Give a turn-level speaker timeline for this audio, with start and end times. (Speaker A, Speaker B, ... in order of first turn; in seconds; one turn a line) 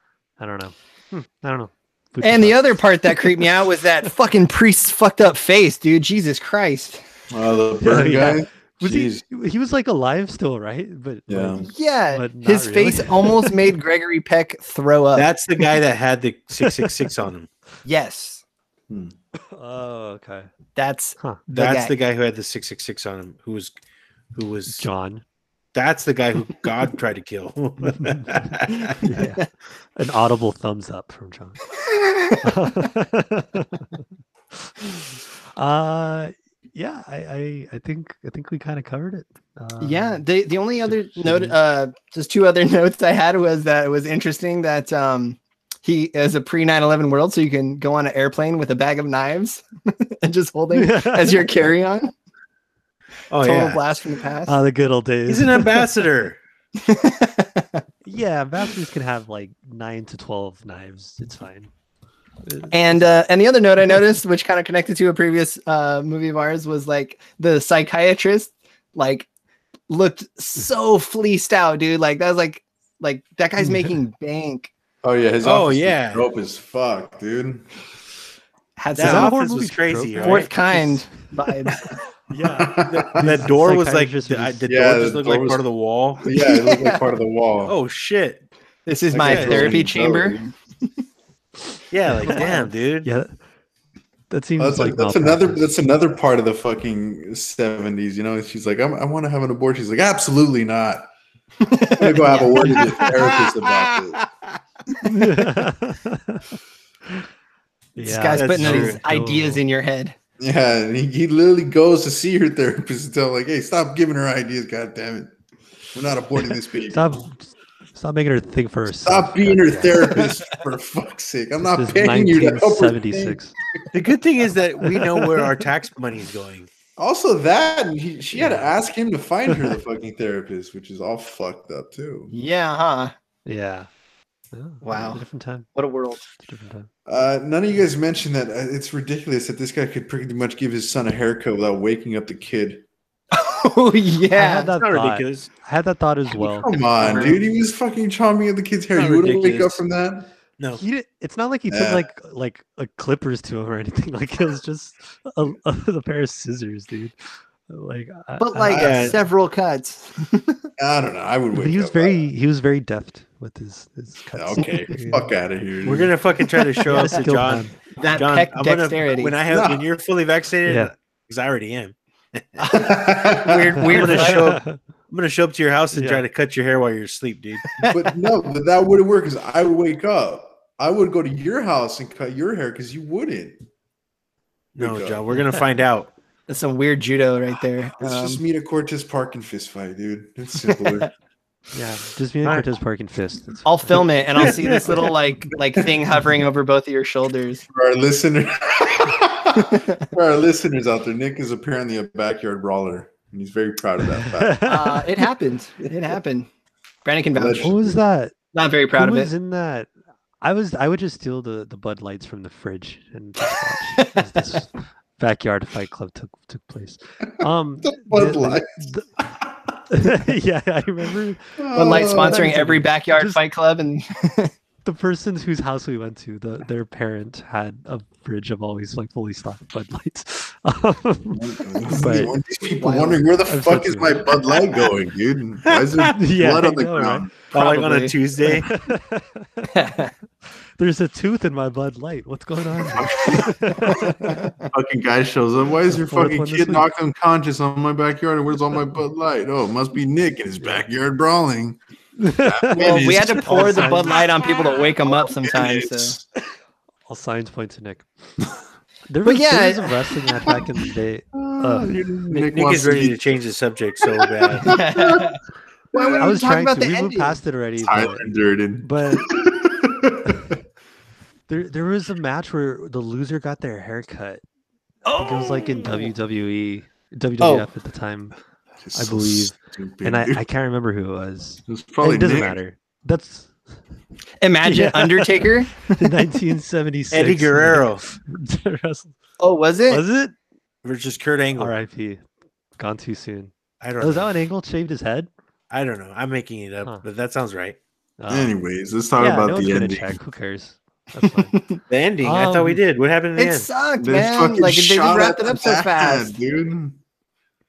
Speaker A: 0.4-3.5
Speaker B: 2.2-7.0
Speaker C: 7.3-9.2
Speaker A: 7.8-13.6
Speaker C: 11.3-11.7
Speaker B: 11.7-15.3
Speaker D: 15.1-17.5
Speaker A: 16.6-17.1
Speaker B: 17.8-18.4
Speaker A: 19.5-20.5
Speaker B: 20.7-21.9
Speaker D: 21.5-23.7
Speaker D: 24.3-24.8
Speaker A: 24.7-25.2
Speaker D: 25.7-29.2
Speaker A: 27.8-29.4
Speaker A: 29.9-31.6
Speaker B: 31.9-32.4
Speaker A: 32.4-33.9
Speaker A: 34.5-40.2
Speaker B: 39.8-52.1
Speaker A: 41.1-41.5
Speaker A: 50.7-51.5
Speaker D: 53.3-53.8
Speaker B: 53.4-54.5
Speaker A: 54.5-55.9
Speaker D: 55.3-56.4
Speaker B: 56.8-57.8
Speaker A: 58.0-61.7
Speaker A: 62.5-63.0
Speaker B: 62.7-69.3
Speaker B: 69.9-74.7
Speaker A: 73.6-73.9
Speaker C: 75.0-77.7
Speaker D: 75.4-76.3
Speaker B: 78.8-79.3
Speaker D: 78.9-80.5
Speaker A: 79.0-81.1
Speaker B: 80.2-81.9
Speaker A: 82.3-84.7
Speaker C: 82.4-83.4
Speaker D: 82.9-86.3
Speaker C: 84.7-85.6
Speaker C: 86.2-87.7
Speaker B: 86.3-87.0
Speaker D: 87.6-88.5
Speaker B: 88.8-90.4
Speaker C: 89.1-90.5
Speaker D: 89.1-89.8
Speaker D: 91.9-93.1
Speaker A: 92.2-93.3
Speaker A: 94.3-95.7
Speaker C: 94.6-101.1
Speaker B: 101.6-103.1
Speaker C: 101.9-104.2
Speaker D: 102.6-104.3
Speaker A: 105.0-106.5
Speaker A: 108.0-109.6
Speaker B: 108.0-110.1
Speaker D: 108.3-109.0
Speaker C: 110.4-115.3
Speaker C: 115.9-117.1
Speaker A: 116.9-120.3
Speaker C: 119.0-123.9
Speaker A: 121.6-123.5
Speaker D: 123.9-126.7
Speaker A: 124.9-125.5
Speaker C: 127.0-132.3
Speaker A: 128.3-128.7
Speaker A: 129.5-129.7
Speaker B: 132.3-133.1
Speaker A: 133.4-133.9
Speaker A: 134.5-135.7
Speaker B: 134.8-135.2
Speaker B: 135.8-136.2
Speaker A: 136.3-136.9
Speaker C: 137.1-142.8
Speaker B: 143.3-144.7
Speaker A: 144.3-147.3
Speaker D: 144.8-145.5
Speaker C: 146.3-150.3
Speaker B: 147.0-147.3
Speaker D: 148.9-149.8
Speaker A: 150.8-157.1
Speaker C: 151.7-152.0
Speaker A: 157.7-159.2
Speaker B: 158.4-160.6
Speaker D: 158.7-159.2
Speaker C: 160.8-162.2
Speaker A: 161.5-165.3
Speaker C: 164.3-166.1
Speaker D: 165.8-172.6
Speaker A: 166.8-167.7
Speaker B: 167.9-169.3
Speaker C: 169.5-169.8
Speaker A: 170.7-170.9
Speaker B: 172.6-174.5
Speaker C: 172.7-173.8
Speaker D: 173.8-177.7
Speaker A: 173.9-174.8
Speaker A: 175.9-176.2
Speaker B: 177.7-178.1
Speaker C: 177.8-183.6
Speaker C: 184.8-185.2
Speaker D: 184.8-186.1
Speaker B: 186.5-188.4
Speaker C: 188.0-191.1
Speaker A: 191.7-194.6
Speaker B: 193.7-197.6
Speaker D: 194.4-195.1
Speaker C: 197.7-204.7
Speaker B: 199.7-200.0
Speaker A: 204.2-205.2
Speaker B: 204.6-206.5
Speaker B: 207.0-207.8
Speaker C: 207.3-208.0
Speaker A: 207.6-208.3
Speaker B: 208.5-209.3
Speaker A: 208.9-209.9
Speaker A: 210.4-219.1
Speaker B: 214.0-214.2
Speaker C: 217.4-218.9
Speaker A: 219.9-223.4
Speaker C: 221.6-222.6
Speaker B: 221.7-224.5
Speaker A: 224.8-232.4
Speaker C: 231.3-237.3
Speaker B: 232.8-233.2
Speaker A: 233.4-234.4
Speaker D: 235.7-236.2
Speaker A: 236.1-237.3
Speaker D: 237.5-238.7
Speaker B: 237.5-238.1
Speaker A: 238.4-239.7
Speaker B: 239.7-240.1
Speaker A: 240.8-244.3
Speaker C: 242.9-251.8
Speaker B: 243.9-244.7
Speaker A: 245.9-246.9
Speaker A: 250.6-250.8
Speaker A: 252.2-254.3
Speaker C: 252.4-254.0
Speaker B: 252.7-256.1
Speaker C: 255.0-256.2
Speaker A: 257.1-258.4
Speaker A: 259.1-262.0
Speaker B: 259.2-260.0
Speaker C: 261.3-263.2
Speaker D: 262.3-264.7
Speaker C: 264.4-265.4
Speaker B: 264.6-265.4
Speaker C: 265.9-266.4
Speaker B: 265.9-267.4
Speaker A: 266.2-269.3
Speaker C: 267.8-270.6
Speaker A: 271.5-274.4
Speaker B: 275.1-276.1
Speaker A: 275.1-278.4
Speaker B: 277.4-277.7
Speaker C: 278.8-280.4
Speaker A: 278.9-283.5
Speaker C: 281.6-282.6
Speaker B: 284.4-286.1
Speaker A: 284.6-289.1
Speaker D: 287.1-288.0
Speaker B: 289.4-290.0
Speaker A: 289.9-290.3
Speaker D: 290.8-291.7
Speaker A: 291.6-292.2
Speaker A: 292.8-295.3
Speaker D: 293.8-294.3
Speaker D: 295.7-297.8
Speaker A: 298.2-298.5
Speaker C: 298.3-300.2
Speaker A: 299.2-301.6
Speaker B: 301.2-301.8
Speaker D: 301.9-303.7
Speaker A: 302.2-302.8
Speaker B: 303.4-306.3
Speaker C: 304.0-307.0